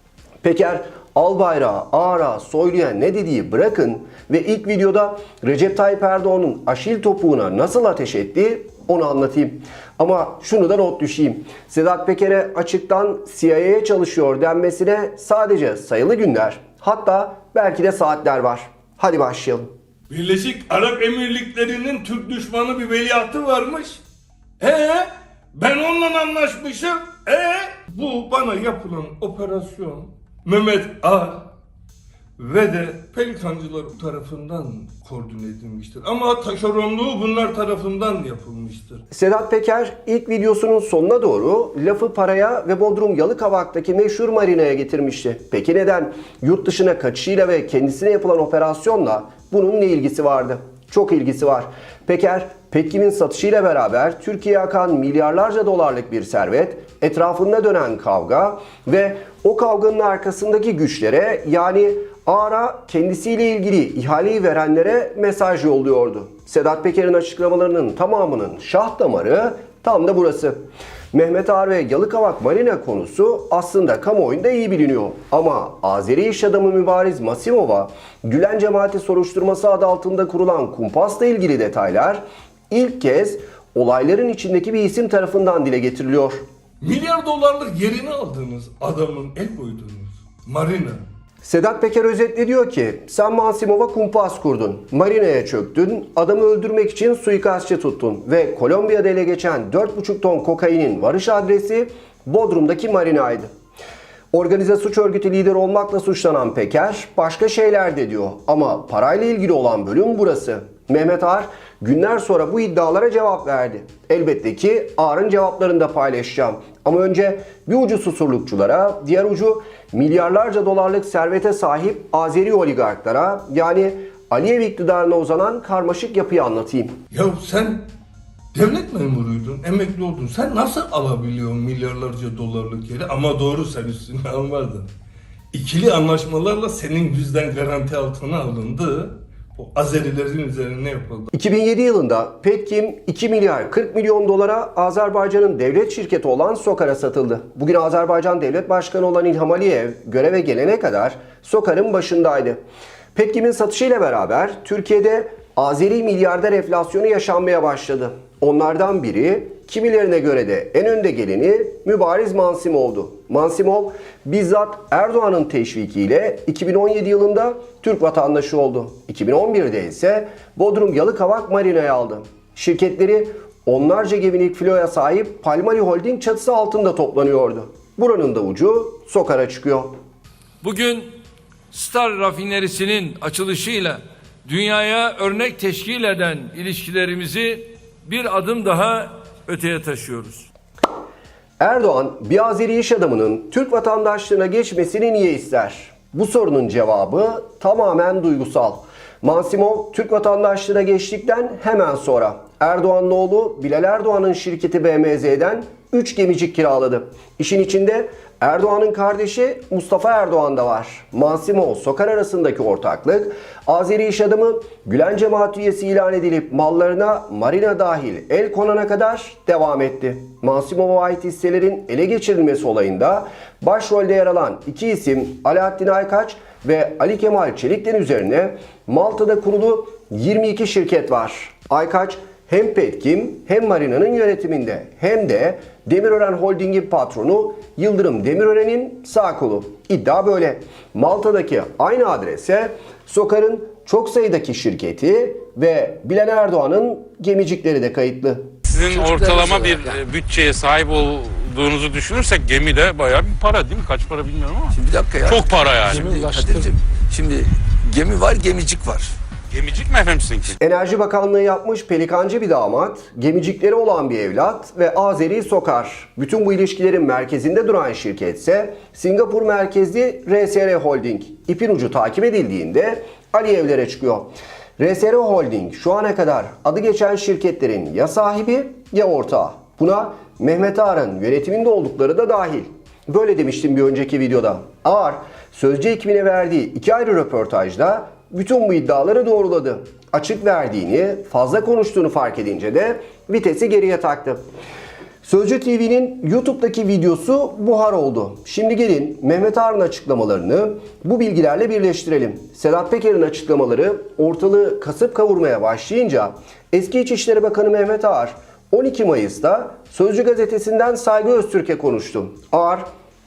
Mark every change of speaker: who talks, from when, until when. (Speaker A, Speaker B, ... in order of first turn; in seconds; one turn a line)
Speaker A: 0.4-19.7
Speaker B: 20.1-24.0
Speaker B: 24.6-31.5
Speaker B: 32.4-39.0
Speaker A: 39.1-70.6
Speaker A: 71.1-86.4
Speaker B: 86.8-91.0
Speaker A: 91.4-103.5
Speaker A: 104.3-126.9
Speaker B: 127.1-127.9
Speaker B: 128.5-134.9
Speaker B: 135.5-141.3
Speaker A: 141.3-152.6
Speaker A: 153.1-179.9
Speaker C: 180.6-181.1
Speaker C: 181.7-190.4
Speaker A: 191.6-248.5
Speaker D: 248.7-256.5
Speaker E: 248.9-249.9
Speaker E: 254.8-259.1
Speaker D: 259.5-260.6
Speaker A: 260.6-294.4
Speaker A: 295.2-312.8